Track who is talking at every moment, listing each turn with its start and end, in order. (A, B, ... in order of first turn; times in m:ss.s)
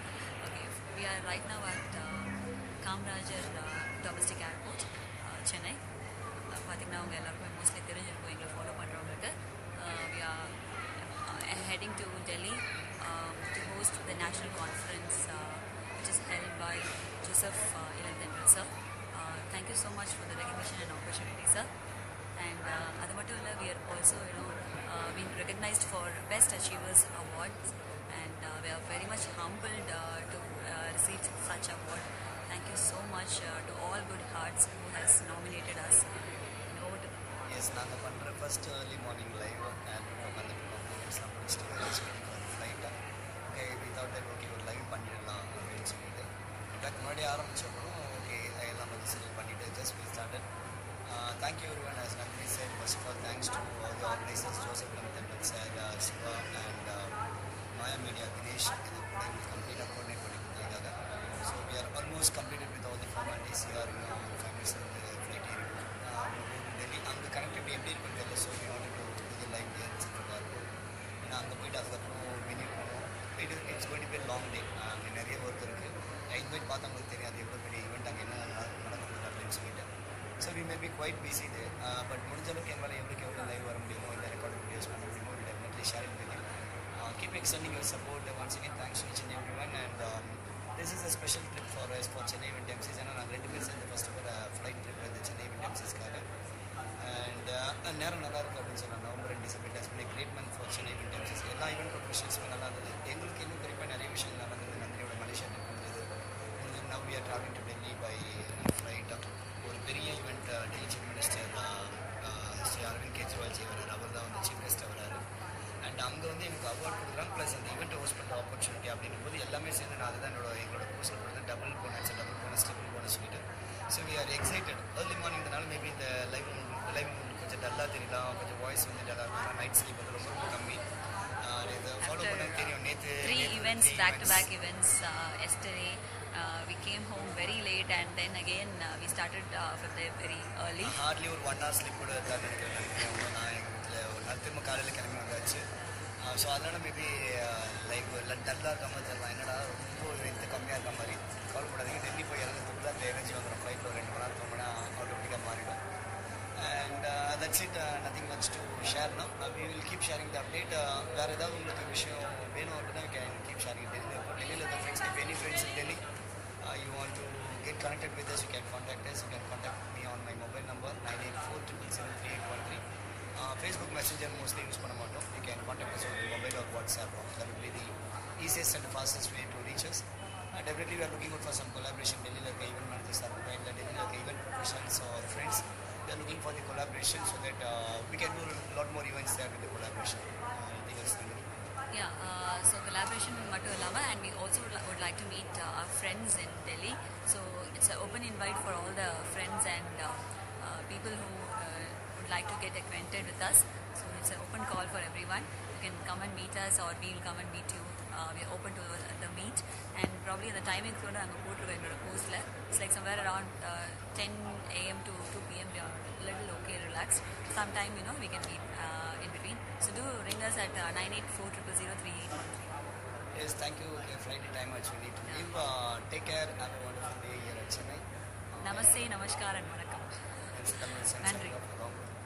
0:00.4-0:05.8 A
0:06.5-0:21.7 A
0:22.4-0:36.0 A
0:36.7-0:37.1 A
0:37.5-0:42.9 B
0:43.5-0:50.4 B
0:51.0-0:57.2 B
0:57.7-1:10.6 B
1:11.2-1:19.9 B
1:20.4-1:36.2 B
1:37.0-1:46.0 B
1:46.6-1:55.2 B
1:55.8-2:10.8 B
2:11.4-2:14.5 B
2:12.0-2:21.0 A
2:20.8-2:25.6 B
2:26.2-2:35.8 B
2:36.6-2:46.0 B
2:46.6-2:52.8 B
2:53.4-3:11.5 B
3:11.9-3:42.6 A
3:43.3-3:49.1 B
3:48.6-3:50.1 A
3:50.5-3:52.1 B
3:51.2-3:51.6 A